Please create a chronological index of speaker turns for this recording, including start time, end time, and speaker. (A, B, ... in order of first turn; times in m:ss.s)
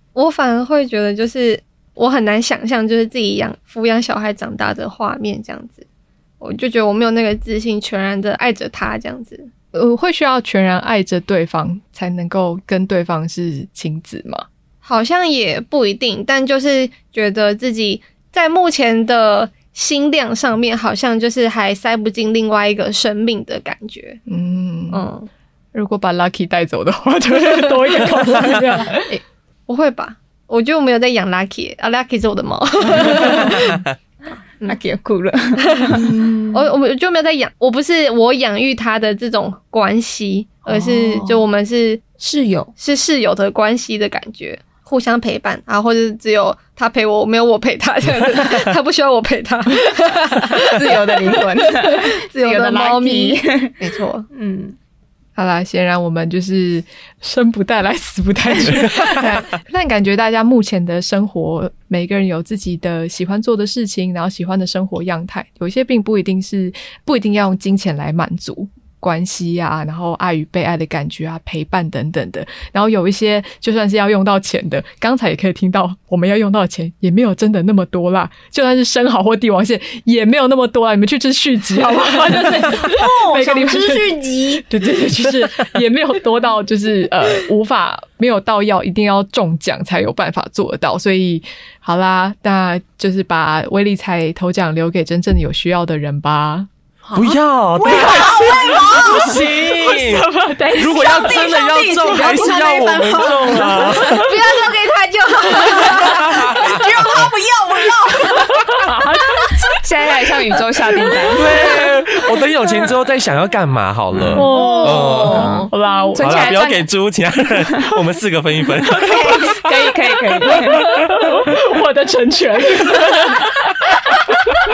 0:00.2-0:05.8 A
0:06.4-0:09.5 A
0:09.7-0:14.5 B
0:14.8-0:24.2 A
0:24.3-0:25.0 B
0:24.9-0:25.3 A
0:25.7-0:29.1 B
0:29.0-0:33.8 A
0:34.7-0:36.1 C
0:35.7-0:42.0 A
0:35.9-0:36.7 B
0:40.7-0:41.4 B
0:42.2-0:42.7 C
0:42.8-0:54.3 A
0:50.6-0:54.8 C
0:55.4-1:36.7 B
1:22.4-1:24.7 D
1:37.0-1:39.5 D
1:37.2-1:44.3 E
1:38.2-1:41.2 B
1:40.8-1:44.0 D
1:43.4-1:44.1 B
1:44.0-1:46.5 A
1:45.7-1:48.5 D
1:46.0-1:47.2 E
1:48.5-1:49.8 B
1:49.8-1:51.7 C
1:51.3-1:59.6 E
1:54.3-1:56.6 B
1:54.4-1:55.7 D
1:56.1-1:56.9 C
1:58.9-2:01.1 C
1:58.9-1:59.6 D
2:00.5-2:04.3 B